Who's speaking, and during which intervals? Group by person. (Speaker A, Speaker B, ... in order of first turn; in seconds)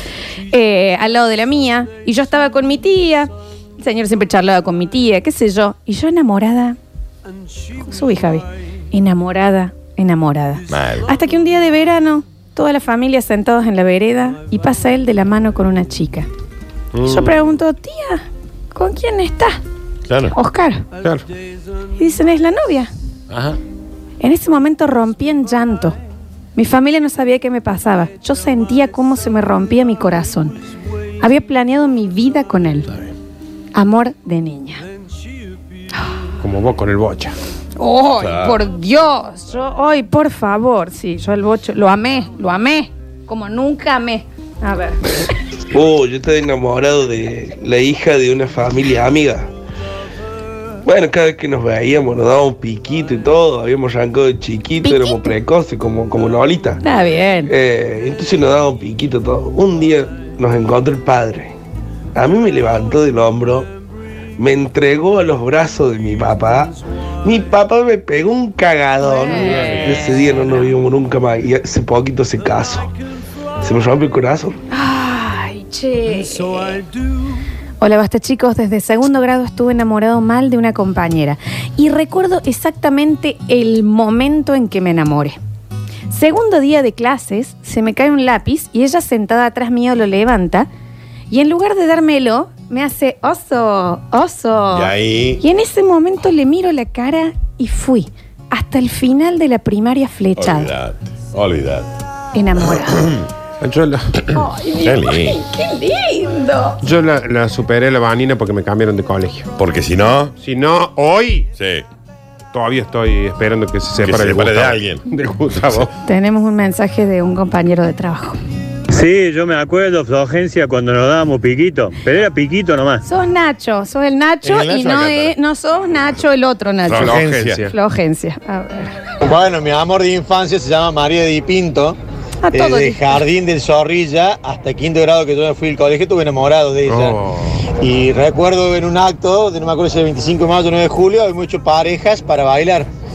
Speaker A: 0.5-6.8, 7.8-16.3, 17.0-19.6, 20.3-20.9, 22.0-22.9, 24.2-25.9, 26.6-30.6, 31.2-32.9, 33.7-34.8, 37.8-45.2, 54.8-55.3, 56.8-57.5, 69.0-70.2, 74.7-76.8, 77.8-85.4, 86.1-90.7, 91.3-100.7, 102.3-103.2, 104.3-106.8, 116.0-118.4, 123.0-128.9, 132.4-133.2
Speaker B: 10.7-11.1, 20.1-20.3, 23.3-23.6, 38.2-38.6, 94.7-95.4, 100.3-101.9, 102.6-103.3, 104.3-105.4, 109.6-110.3, 111.6-111.8, 114.0-115.0, 124.4-125.3, 126.8-127.6
Speaker C: 16.9-17.4, 36.4-37.4, 103.6-104.1, 106.8-109.5, 110.4-111.5, 112.5-115.9, 127.0-127.7, 136.9-137.6
Speaker D: 45.7-49.5, 50.8-56.8, 57.5-61.5, 62.1-63.7, 64.4-72.9, 73.6-74.6
Speaker E: 118.9-123.0
Speaker F: 129.2-132.0, 132.5-137.2, 137.8-142.9